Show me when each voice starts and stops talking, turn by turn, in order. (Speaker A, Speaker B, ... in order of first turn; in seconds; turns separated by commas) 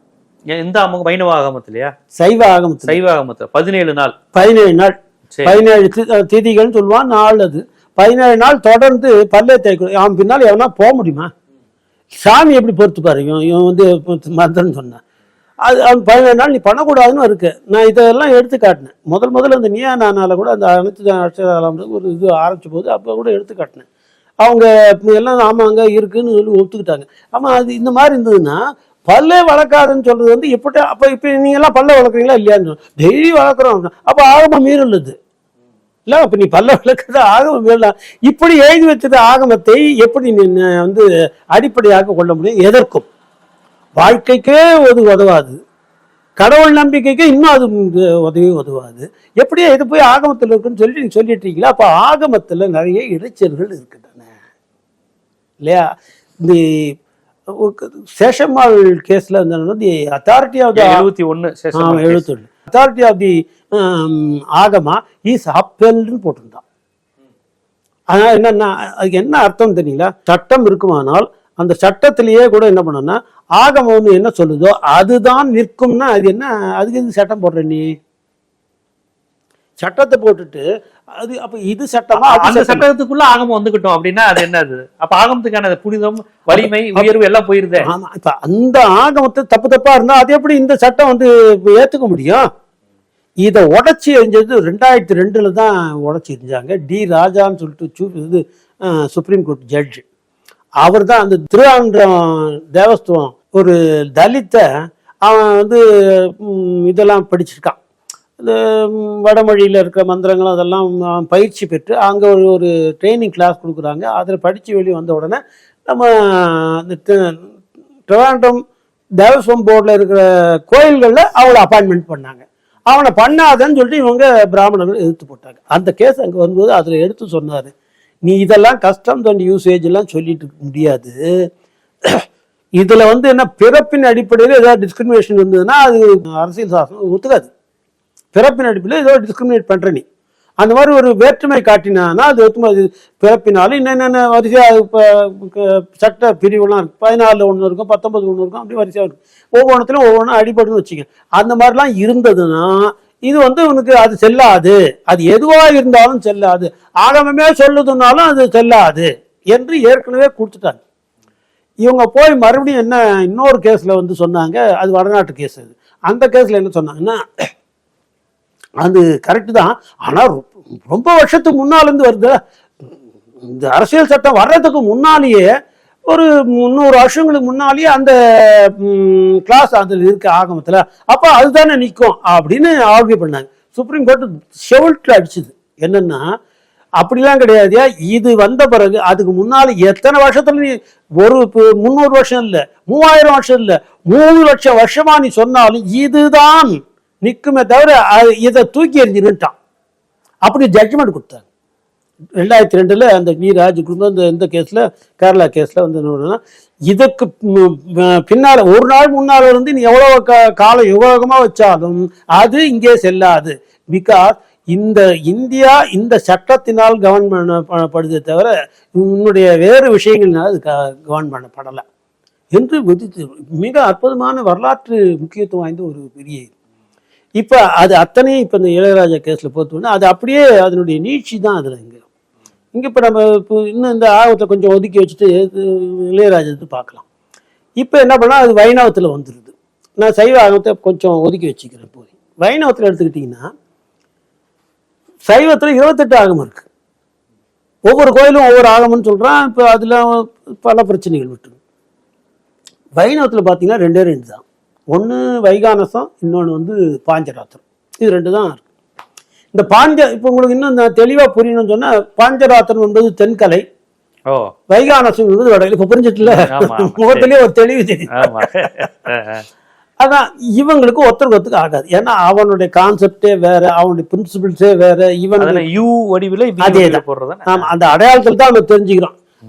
Speaker A: 0.5-1.9, Speaker B: 2.1-3.0, Speaker A: 2.9-4.2, Speaker B: 4.3-11.3, Speaker A: 5.3-5.6, Speaker B: 12.2-15.0, Speaker B: 15.6-23.8, Speaker B: 24.4-35.1, Speaker B: 36.1-43.1, Speaker B: 44.0-45.6, Speaker B: 46.4-54.2, Speaker B: 55.6-55.9, Speaker B: 56.4-56.9, Speaker B: 57.5-61.0, Speaker A: 60.8-62.2, Speaker B: 61.7-66.6, Speaker B: 68.1-77.8, Speaker B: 79.8-80.6, Speaker B: 81.2-82.9, Speaker A: 82.2-87.9, Speaker B: 86.5-87.1, Speaker B: 87.8-92.4, Speaker B: 93.4-98.4, Speaker B: 99.0-100.0, Speaker B: 100.8-102.2, Speaker B: 102.7-104.6, Speaker B: 105.2-105.8, Speaker B: 106.4-107.8, Speaker B: 108.4-117.3, Speaker B: 118.1-118.6, Speaker B: 119.2-127.7, Speaker B: 128.2-131.1, Speaker B: 132.8-137.5, Speaker B: 138.3-140.0, Speaker B: 140.6-152.7, Speaker B: 153.2-160.8, Speaker B: 161.8-167.2, Speaker B: 168.8-172.4, Speaker B: 173.5-175.4, Speaker B: 176.1-178.1, Speaker B: 178.8-186.2, Speaker B: 187.0-199.5, Speaker B: 200.4-201.4, Speaker B: 202.4-221.8, Speaker B: 222.5-226.5, Speaker B: 227.4-232.0, Speaker B: 232.7-237.0, Speaker B: 237.8-243.4, Speaker B: 245.3-246.7, Speaker B: 247.9-251.6, Speaker B: 253.0-254.4, Speaker B: 254.9-258.6, Speaker B: 259.5-263.6, Speaker B: 264.7-268.5, Speaker A: 266.2-267.3, Speaker A: 268.1-269.4, Speaker B: 270.0-275.6, Speaker A: 275.4-277.7, Speaker B: 276.6-279.1